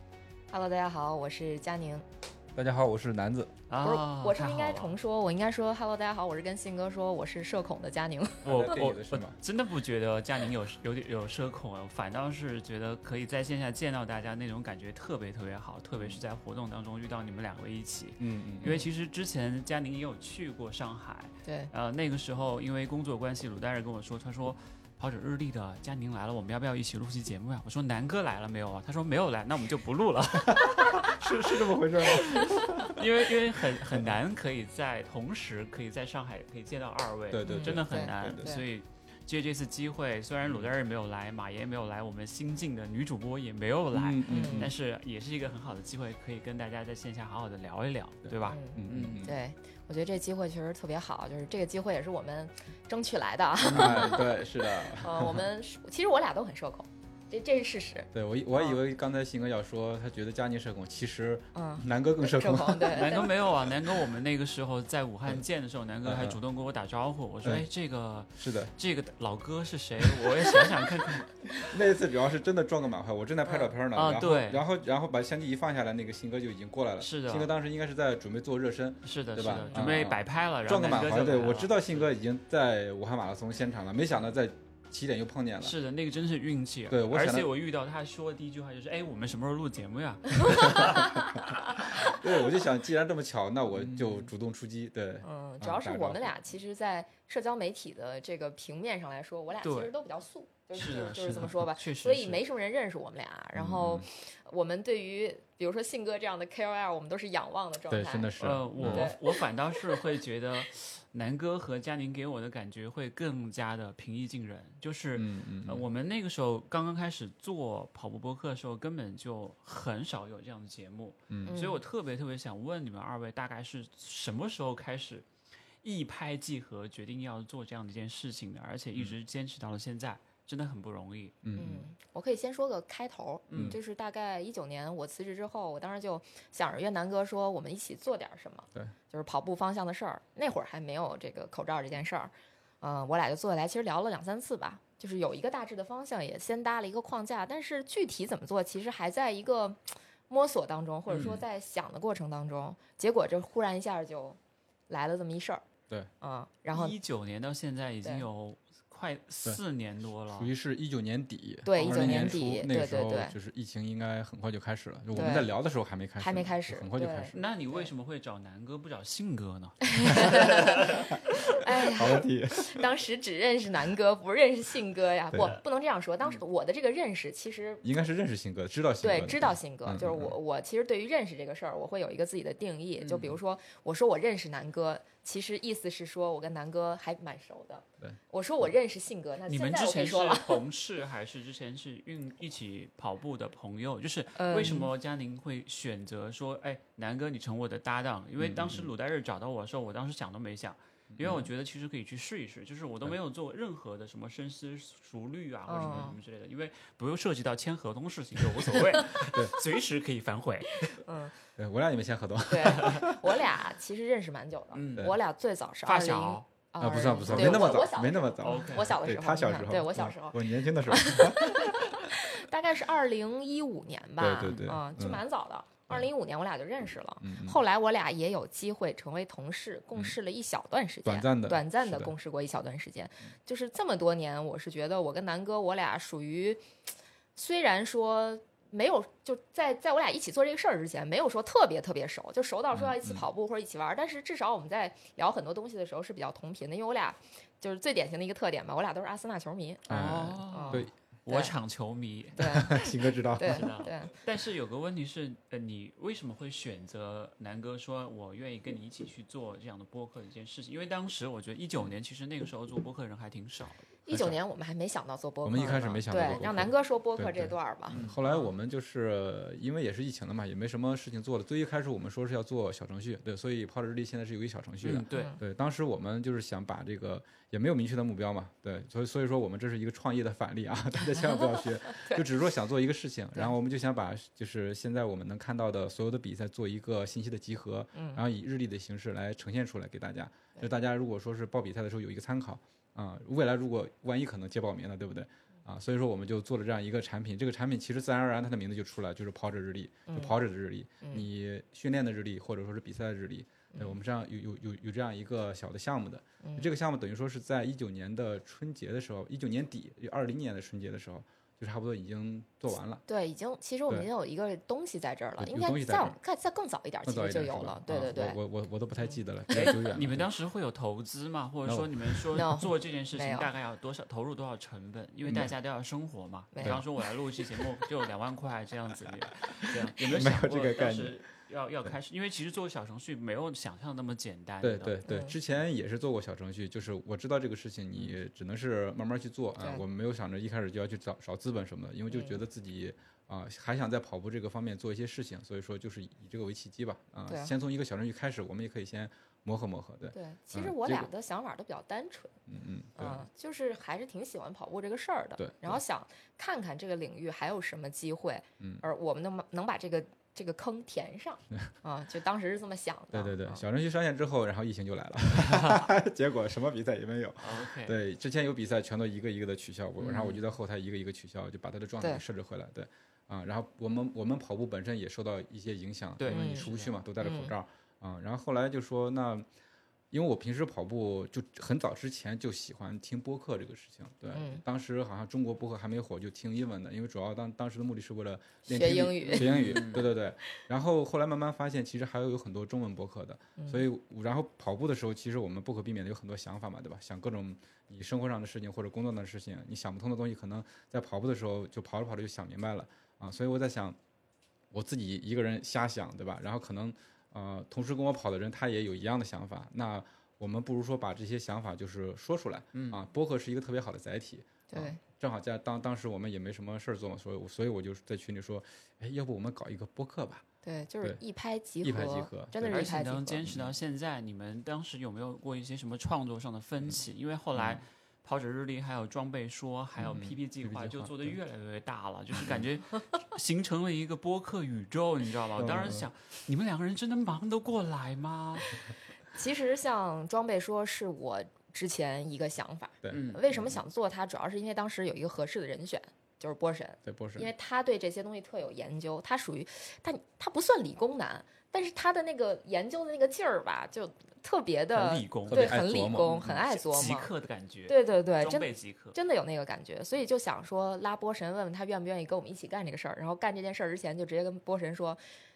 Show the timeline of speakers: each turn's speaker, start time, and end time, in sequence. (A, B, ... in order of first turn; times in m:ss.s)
0:00.5-0:02.1 A
0:02.6-0:03.5 B
0:03.7-0:04.9 C
0:03.8-0:08.5 A
0:08.4-0:09.4 B
0:08.4-0:49.3 C
0:16.0-0:16.2 B
0:18.2-0:18.9 B
0:21.4-0:21.7 A
0:30.5-0:34.2 B
0:37.3-0:38.6 B
0:37.4-0:38.6 A
0:40.4-0:40.7 B
0:43.9-0:44.7 B
0:44.3-0:44.7 A
0:48.3-0:49.4 B
0:48.5-0:58.8 A
0:53.6-0:55.5 B
0:58.1-1:03.3 B
1:01.6-1:03.3 A
1:02.9-1:11.6 C
1:06.0-1:06.4 B
1:08.4-1:08.7 B
1:10.0-1:10.4 B
1:11.7-1:25.8 B
1:13.5-1:13.7 A
1:13.9-1:14.6 C
1:17.0-1:17.5 C
1:19.0-1:22.1 C
1:19.6-1:19.9 A
1:25.6-1:31.9 C
1:26.9-1:27.5 B
1:30.5-1:36.4 B
1:30.6-1:32.2 A
1:33.8-1:34.3 C
1:35.2-1:49.4 A
1:39.6-1:39.9 C
1:40.7-1:42.4 C
1:43.6-1:44.1 B
1:47.9-1:49.2 B
1:48.4-2:05.3 C
1:55.2-1:55.8 B
2:01.3-2:01.6 B
2:01.5-2:01.8 A
2:05.8-2:11.4 C
2:11.4-2:11.9 B
2:11.6-2:34.4 A
2:13.5-2:13.8 C
2:13.5-2:13.8 B
2:31.1-2:31.4 B
2:34.9-2:35.6 A
2:36.2-2:37.0 A
2:36.7-2:40.5 C
2:40.4-2:47.4 B
2:41.7-2:43.4 A
2:41.8-2:42.3 C
2:45.1-2:45.5 A
2:46.2-2:47.9 A
2:47.3-2:51.1 C
2:49.8-2:57.8 A
2:50.9-2:52.9 B
2:55.3-2:55.6 B
2:57.8-3:00.4 B
2:59.0-3:10.6 A
3:03.0-3:03.3 C
3:09.5-3:31.0 C
3:14.4-3:14.9 A
3:18.4-3:18.9 B
3:21.1-3:21.5 B
3:25.7-3:26.2 A
3:25.8-3:26.1 B
3:28.7-3:29.3 A
3:29.2-3:29.6 B
3:30.9-3:31.4 A
3:31.6-3:33.4 B
3:32.5-3:56.6 A
3:34.7-3:35.2 C
3:35.8-3:36.5 C
3:36.8-3:42.1 B
3:37.2-3:37.7 C
3:38.4-3:39.0 C
3:44.2-3:45.2 B
3:44.4-3:44.7 C
3:47.2-3:47.6 B
3:51.0-3:52.1 B
3:57.4-4:11.5 A
4:02.7-4:03.2 B
4:09.9-4:10.9 B
4:09.9-4:12.8 C
4:12.4-4:14.1 A
4:12.4-4:13.7 B
4:13.4-4:23.9 C
4:24.1-4:28.4 A
4:24.1-4:24.4 B
4:25.4-5:13.0 B
4:27.9-4:28.3 C
4:34.8-4:35.3 C
4:35.1-4:35.4 A
4:41.1-4:42.3 A
4:48.0-4:48.2 A
5:00.1-5:00.3 A
5:01.0-5:01.3 A
5:06.4-5:06.7 A
5:13.1-5:18.4 A
5:15.4-5:16.2 B
5:17.1-5:20.3 B
5:19.0-5:19.7 A
5:19.5-5:35.0 C
5:21.6-5:22.3 B
5:22.4-5:23.5 A
5:25.3-5:25.5 B
5:26.5-5:26.8 A
5:30.1-5:31.2 B
5:34.6-5:51.1 B
5:35.1-5:35.3 A
5:42.1-5:42.4 A
5:47.3-5:47.5 A
5:50.1-5:52.4 A
5:52.5-5:53.2 B
5:53.0-6:03.6 A
5:55.4-5:55.8 B
6:03.1-6:19.5 B
6:05.5-6:05.8 C
6:07.4-6:08.0 C
6:10.0-6:10.4 C
6:16.2-6:16.9 C
6:16.3-6:16.7 A
6:17.2-6:17.5 A
6:20.1-6:44.0 B
6:24.3-6:24.6 A
6:28.7-6:30.0 A
6:29.3-6:30.1 C
6:33.6-6:33.9 A
6:44.7-7:00.4 B
6:52.7-6:53.0 C
6:54.7-6:55.0 A
7:00.6-7:03.4 A
7:01.8-7:03.8 B
7:02.7-7:18.8 C
7:07.6-7:07.8 B
7:10.0-7:11.4 B
7:12.4-7:12.6 B
7:15.6-7:16.1 B
7:19.3-7:37.3 A
7:23.0-7:23.8 B
7:23.1-7:23.4 C
7:27.1-7:27.5 B
7:34.9-7:35.8 C
7:35.5-7:36.6 B
7:36.4-7:39.2 C
7:37.9-7:45.2 A